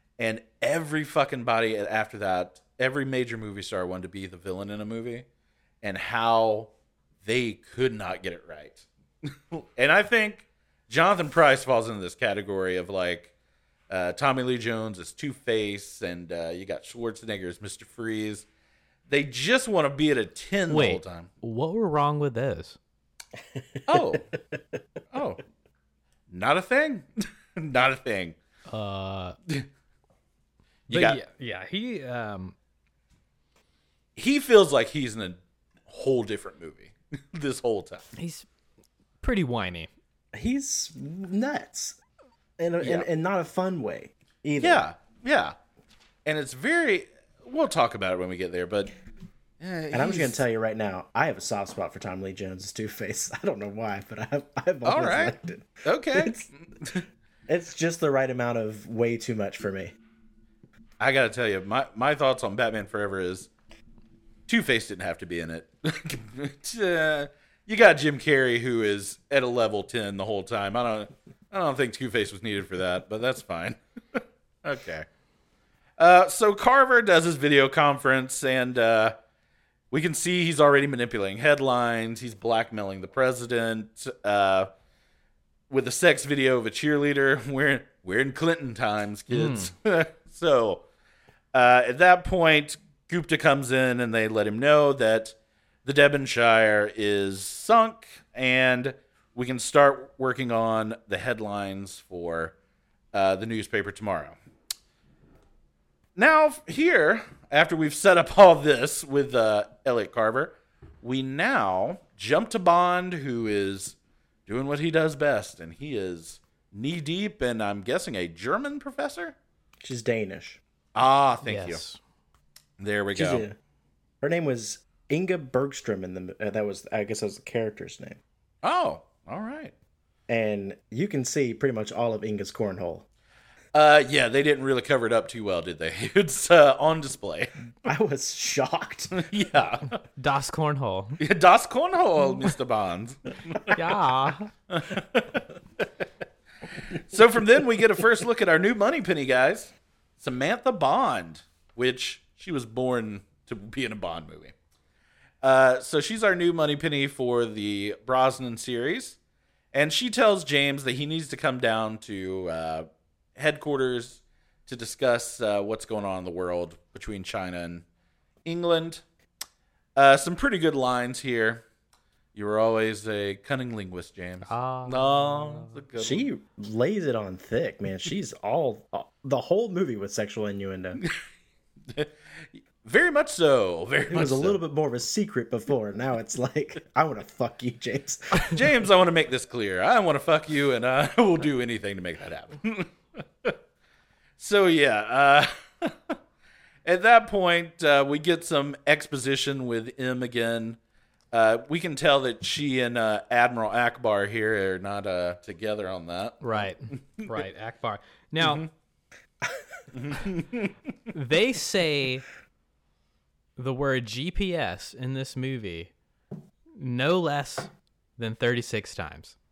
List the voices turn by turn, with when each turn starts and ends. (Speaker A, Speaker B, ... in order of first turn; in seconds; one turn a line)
Speaker A: 0.2-5.2
Speaker A: 5.8-6.7
Speaker A: 7.2-13.3
Speaker A: 13.9-18.4
Speaker A: 19.1-21.3
Speaker B: 20.7-22.8
Speaker C: 23.6-24.0
Speaker A: 23.9-24.2
Speaker A: 25.1-25.4
Speaker A: 26.3-28.4
Speaker B: 28.7-29.4
Speaker B: 30.9-32.5
Speaker A: 30.9-31.2
Speaker A: 34.1-38.0
Speaker B: 38.1-38.5
Speaker B: 39.2-39.9
Speaker C: 40.3-42.0
Speaker C: 42.6-44.8
Speaker A: 42.8-43.0
Speaker A: 44.6-45.5
Speaker A: 46.2-48.9
Speaker A: 49.6-50.4
Speaker C: 49.9-56.5
Speaker A: 54.8-57.0
Speaker C: 57.5-59.9
Speaker A: 61.0-63.5
Speaker A: 64.5-75.0
Speaker A: 76.0-79.1
Speaker A: 79.9-84.7
Speaker A: 85.7-90.8
Speaker B: 89.3-89.7
Speaker A: 91.5-102.5
Speaker A: 103.1-104.3
Speaker A: 106.2-119.3
Speaker C: 119.8-120.6
Speaker A: 120.9-121.8
Speaker B: 121.4-122.0
Speaker A: 122.8-123.5
Speaker C: 123.1-123.5
Speaker C: 124.2-128.2
Speaker A: 128.6-129.7
Speaker C: 130.3-133.1
Speaker A: 133.7-137.5
Speaker C: 137.8-139.1
Speaker A: 139.1-140.0
Speaker B: 140.2-141.2
Speaker A: 141.2-143.8
Speaker B: 143.7-144.5
Speaker A: 144.7-146.0
Speaker A: 146.8-154.5
Speaker A: 155.4-159.2
Speaker A: 159.7-167.8
Speaker A: 168.4-169.0
Speaker A: 169.9-171.6
Speaker A: 172.3-176.3
Speaker B: 174.4-175.8
Speaker C: 175.9-181.0
Speaker A: 181.9-184.6
Speaker C: 184.1-188.7
Speaker A: 188.3-193.6
Speaker A: 194.4-196.2
Speaker A: 196.8-200.8
Speaker A: 201.3-207.3
Speaker B: 206.4-208.6
Speaker A: 208.4-208.7
Speaker A: 209.9-210.7
Speaker B: 211.1-212.2
Speaker B: 213.6-215.9
Speaker B: 216.8-219.3